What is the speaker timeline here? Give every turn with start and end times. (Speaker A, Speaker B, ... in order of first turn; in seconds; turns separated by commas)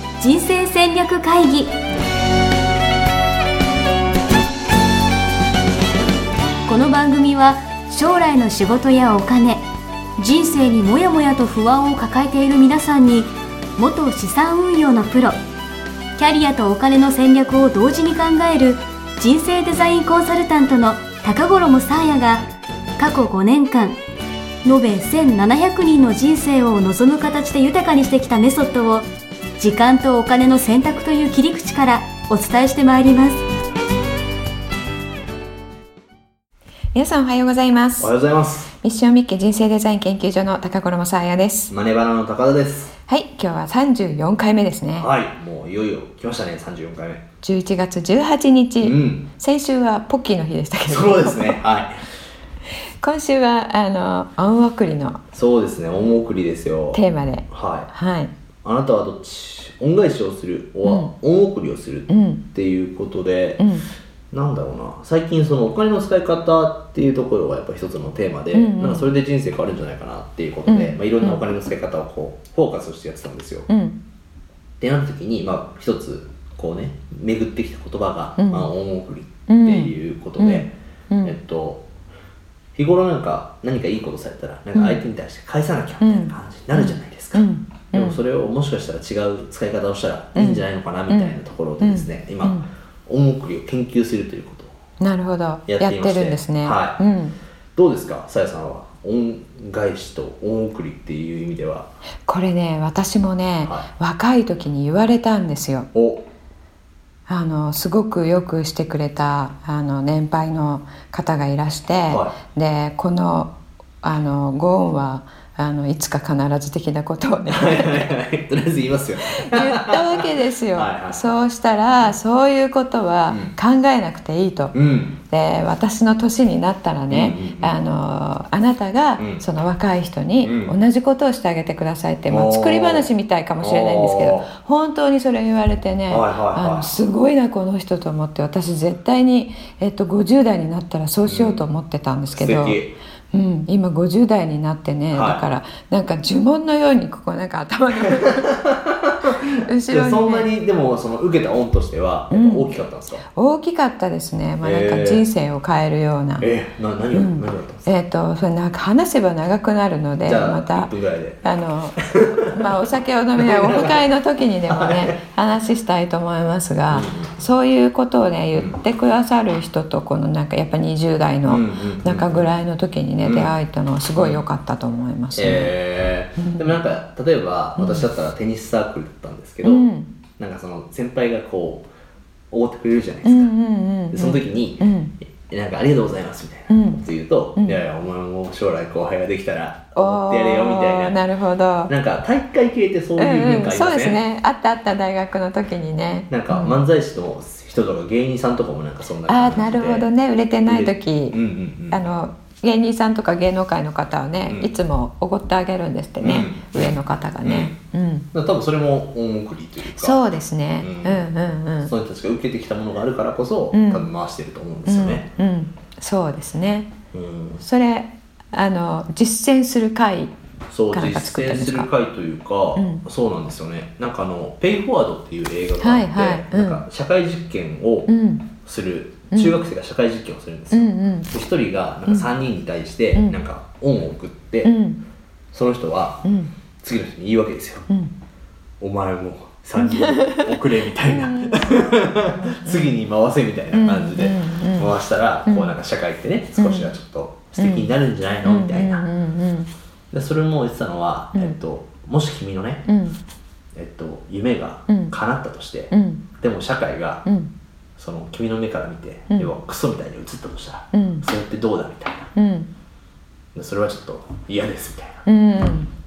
Speaker A: 0.2-1.7, Speaker A: 6.7-9.7, Speaker A: 10.2-15.4, Speaker A: 16.2-22.4, Speaker A: 23.0-24.0, Speaker A: 24.6-29.1, Speaker A: 29.6-33.4, Speaker B: 36.9-38.1, Speaker C: 38.0-38.7, Speaker B: 38.8-41.7, Speaker C: 41.7-42.9, Speaker B: 43.1-45.1, Speaker C: 45.0-47.2, Speaker B: 47.4-51.6, Speaker C: 48.8-49.3, Speaker C: 50.9-52.0, Speaker B: 53.0-55.2, Speaker C: 55.3-57.9, Speaker B: 56.9-58.3, Speaker C: 58.6-63.7, Speaker B: 60.8-61.1, Speaker B: 62.1-62.5, Speaker B: 63.6-63.9, Speaker C: 64.3-73.7, Speaker B: 68.5-69.1, Speaker B: 70.7-71.4, Speaker B: 73.7-74.0, Speaker C: 74.8-81.8, Speaker B: 78.4-78.7, Speaker B: 79.5-81.4, Speaker C: 82.8-94.7, Speaker B: 84.8-85.0, Speaker B: 86.0-88.2, Speaker B: 90.3-92.7, Speaker B: 95.0-97.4, Speaker C: 95.7-97.0, Speaker C: 97.8-101.9, Speaker B: 102.2-105.9, Speaker C: 105.9-106.3, Speaker B: 107.3-118.1, Speaker C: 112.1-112.4, Speaker C: 117.5-121.3, Speaker B: 119.3-124.8, Speaker C: 123.3-123.5, Speaker C: 124.7-125.2, Speaker B: 125.3-148.6, Speaker C: 127.1-127.7, Speaker C: 129.2-129.4, Speaker C: 130.4-130.8, Speaker C: 132.3-134.5, Speaker C: 136.1-137.0, Speaker C: 141.3-141.6, Speaker C: 142.3-143.0, Speaker C: 145.1-145.4, Speaker C: 147.9-149.4, Speaker B: 149.4-150.5, Speaker C: 149.9-153.2, Speaker B: 152.3-152.8, Speaker B: 153.3-156.5, Speaker C: 154.6-155.3, Speaker C: 156.4-157.9, Speaker B: 157.1-160.9, Speaker C: 160.2-161.4, Speaker B: 161.4-175.8, Speaker C: 162.1-162.8, Speaker C: 163.4-164.1, Speaker C: 164.7-165.2, Speaker C: 166.9-167.4, Speaker C: 168.5-168.8, Speaker C: 171.4-172.5, Speaker C: 173.2-173.5, Speaker C: 174.2-174.4, Speaker C: 175.3-179.9, Speaker B: 176.4-176.8, Speaker B: 177.8-178.1, Speaker B: 179.6-180.1, Speaker C: 180.4-181.9, Speaker C: 182.5-183.5, Speaker B: 183.2-185.2, Speaker C: 184.1-191.2, Speaker B: 186.7-187.1, Speaker B: 189.9-191.9, Speaker C: 191.9-194.2, Speaker B: 193.2-196.8, Speaker C: 196.3-200.1, Speaker B: 199.3-208.3, Speaker C: 200.7-202.1, Speaker C: 204.4-204.7, Speaker C: 206.2-207.8, Speaker C: 208.3-210.2, Speaker B: 209.9-211.9, Speaker C: 210.8-211.3, Speaker C: 211.8-215.3, Speaker B: 213.7-214.1, Speaker B: 214.9-216.9, Speaker C: 217.1-217.6, Speaker B: 217.6-220.3, Speaker C: 220.7-234.7, Speaker B: 220.9-221.9, Speaker B: 222.8-223.0, Speaker B: 225.8-226.8, Speaker B: 228.1-228.5, Speaker B: 229.3-229.6, Speaker B: 230.7-231.3, Speaker B: 232.1-232.3, Speaker B: 233.2-233.4, Speaker B: 234.6-235.0, Speaker C: 235.5-236.2, Speaker B: 236.2-236.5, Speaker C: 236.8-237.9, Speaker B: 237.9-238.1, Speaker C: 238.8-249.1, Speaker B: 239.8-243.0, Speaker B: 243.7-244.9, Speaker B: 245.4-245.8, Speaker B: 246.6-247.0, Speaker B: 247.6-249.7, Speaker C: 250.1-252.9, Speaker B: 251.3-251.6, Speaker B: 252.9-253.2, Speaker C: 253.8-257.2, Speaker B: 254.9-255.2, Speaker B: 255.9-256.3, Speaker B: 257.2-257.5, Speaker C: 258.0-262.3, Speaker B: 260.9-261.3, Speaker B: 262.4-262.7, Speaker C: 263.6-265.2, Speaker B: 265.2-265.9